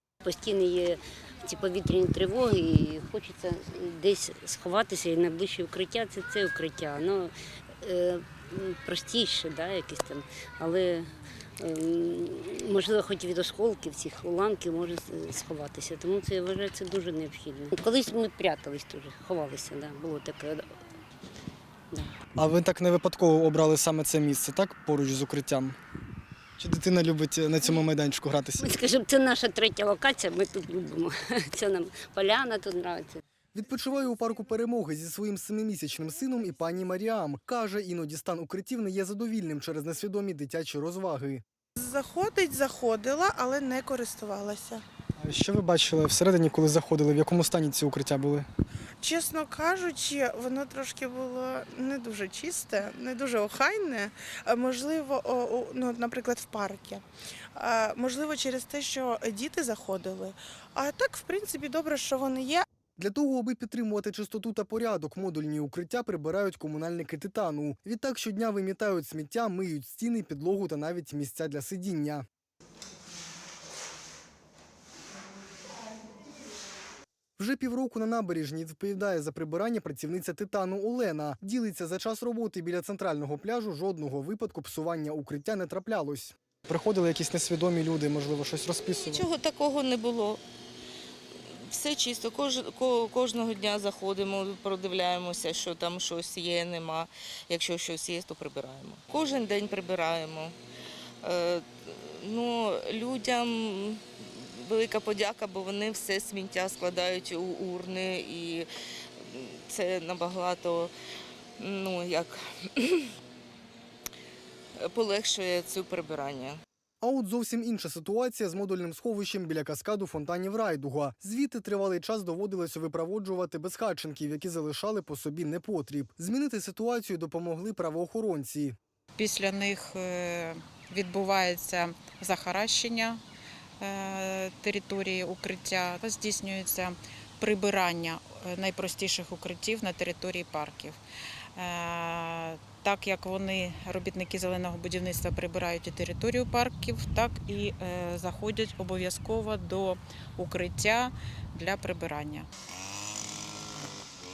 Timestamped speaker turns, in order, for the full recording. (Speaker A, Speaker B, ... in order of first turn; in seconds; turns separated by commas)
Speaker A: 0.2-20.7, Speaker B: 22.4-25.8, Speaker B: 26.6-28.7, Speaker A: 28.6-33.2, Speaker B: 33.5-41.4, Speaker C: 41.8-44.8, Speaker B: 45.2-48.5, Speaker C: 49.0-62.6, Speaker B: 63.0-72.2, Speaker B: 77.4-89.3, Speaker D: 88.8-90.4, Speaker D: 91.7-100.5, Speaker D: 101.2-110.9, Speaker D: 111.6-113.1, Speaker D: 114.8-116.6, Speaker B: 117.0-128.8, Speaker E: 129.2-133.2, Speaker E: 133.8-141.0, Speaker E: 141.6-152.5